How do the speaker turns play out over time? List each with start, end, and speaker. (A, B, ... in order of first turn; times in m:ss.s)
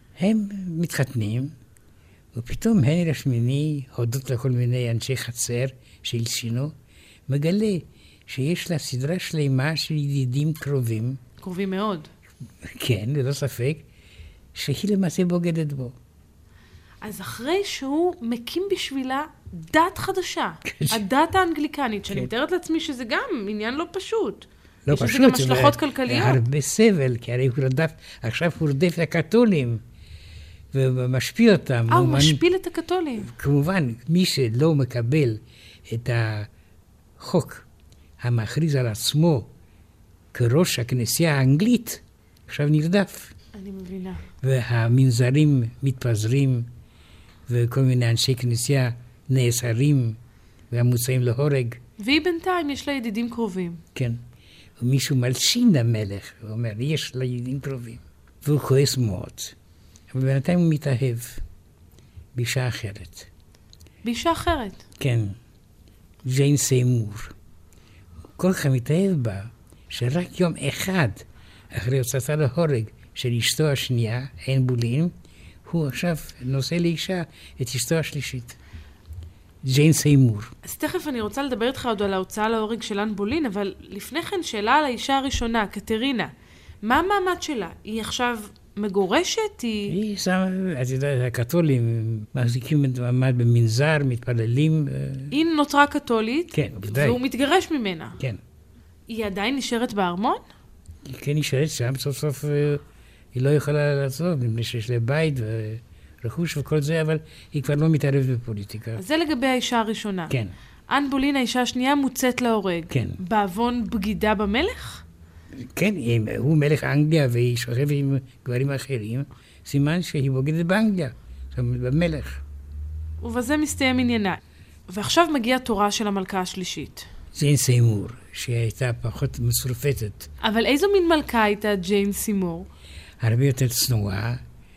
0:00.2-0:01.5 A
0:02.3-0:06.7 A
0:07.3-0:11.2 A
0:11.4-0:12.1 B
0:12.6-0:13.8 A
0:14.5-0:15.9 A
0:17.0-0:26.4 B
0:20.6-0:21.0 A
0:24.8-0:29.8 A
0:30.7-0:32.4 A
0:31.9-0:33.3 B
0:33.2-0:36.5 A
0:37.2-0:37.6 A
0:38.2-0:39.5 A
0:40.3-0:43.3 A
0:43.5-0:44.2 B
0:44.4-0:46.7 A
0:47.5-0:50.2 A
0:50.7-0:51.8 A
0:52.0-0:53.8 B
0:53.9-0:54.2 A
0:54.8-0:59.5 A
1:00.1-1:01.4 A
1:02.3-1:03.3 A
1:04.0-1:04.8 B
1:05.0-1:05.4 A
1:06.2-1:07.3 A
1:08.4-1:15.1 A
1:15.6-1:18.6 A
1:19.6-1:20.5 A
1:20.6-1:26.3 B
1:26.8-1:30.0 B
1:29.9-1:35.3 A
1:35.3-1:38.2 B
1:36.5-1:37.2 A
1:39.1-1:40.4 B
1:41.0-1:42.8 A
1:43.3-1:49.0 A
1:49.0-1:50.3 B
1:50.3-1:50.5 A
1:50.9-1:55.0 B
1:52.9-1:53.2 A
1:55.5-2:02.4 A
2:03.2-2:07.0 B
2:07.3-2:10.3 A
2:10.4-2:12.7 B
2:13.2-2:14.4 A